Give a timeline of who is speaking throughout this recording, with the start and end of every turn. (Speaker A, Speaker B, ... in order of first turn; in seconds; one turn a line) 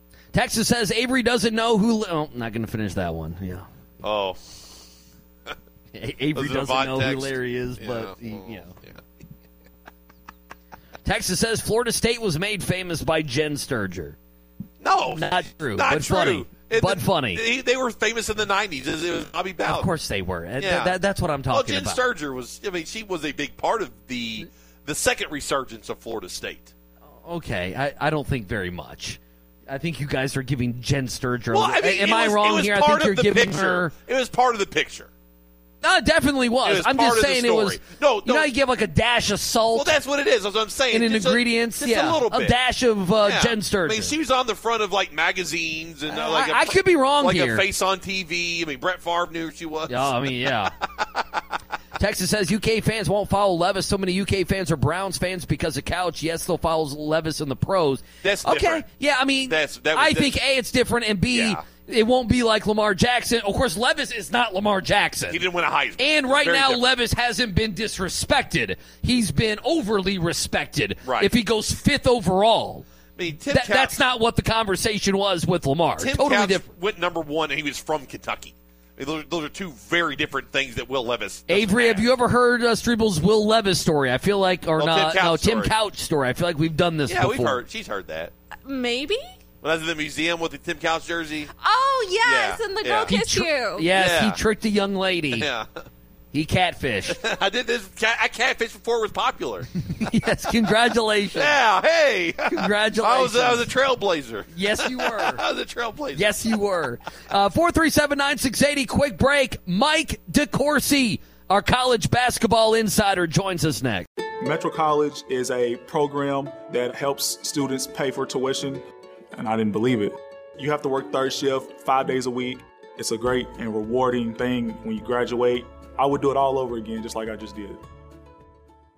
Speaker A: 0.3-3.6
Speaker B: 4.0-4.4
Speaker A: 5.9-8.7
Speaker B: 6.3-9.0
Speaker A: 11.0-14.2
Speaker B: 14.8-19.9
Speaker A: 15.1-17.4
Speaker A: 19.6-22.0
Speaker B: 20.6-20.9
Speaker B: 21.5-26.7
Speaker A: 27.2-33.9
Speaker B: 31.5-35.1
Speaker A: 35.8-39.9
Speaker B: 36.6-38.5
Speaker B: 39.7-42.5
Speaker A: 40.9-44.1
Speaker B: 43.2-50.3
Speaker A: 46.1-47.6
Speaker A: 49.9-50.7
Speaker A: 52.0-65.4
Speaker B: 58.2-58.9
Speaker B: 59.5-60.4
Speaker B: 61.3-61.6
Speaker B: 65.3-66.8
Speaker A: 66.0-72.8
Speaker B: 71.0-71.3
Speaker B: 73.2-74.0
Speaker A: 73.5-76.6
Speaker B: 76.0-82.1
Speaker A: 81.5-87.6
Speaker B: 84.8-85.7
Speaker B: 87.1-88.3
Speaker C: 88.6-89.2
Speaker B: 89.6-91.5
Speaker C: 91.6-93.9
Speaker B: 92.2-93.1
Speaker A: 93.1-95.5
Speaker B: 93.9-94.4
Speaker B: 95.4-95.7
Speaker A: 96.3-97.2
Speaker B: 97.1-99.7
Speaker A: 99.9-101.5
Speaker B: 101.3-106.3
Speaker A: 102.5-103.7
Speaker A: 104.5-105.4
Speaker A: 106.1-114.1
Speaker D: 114.4-118.8
Speaker D: 119.3-127.8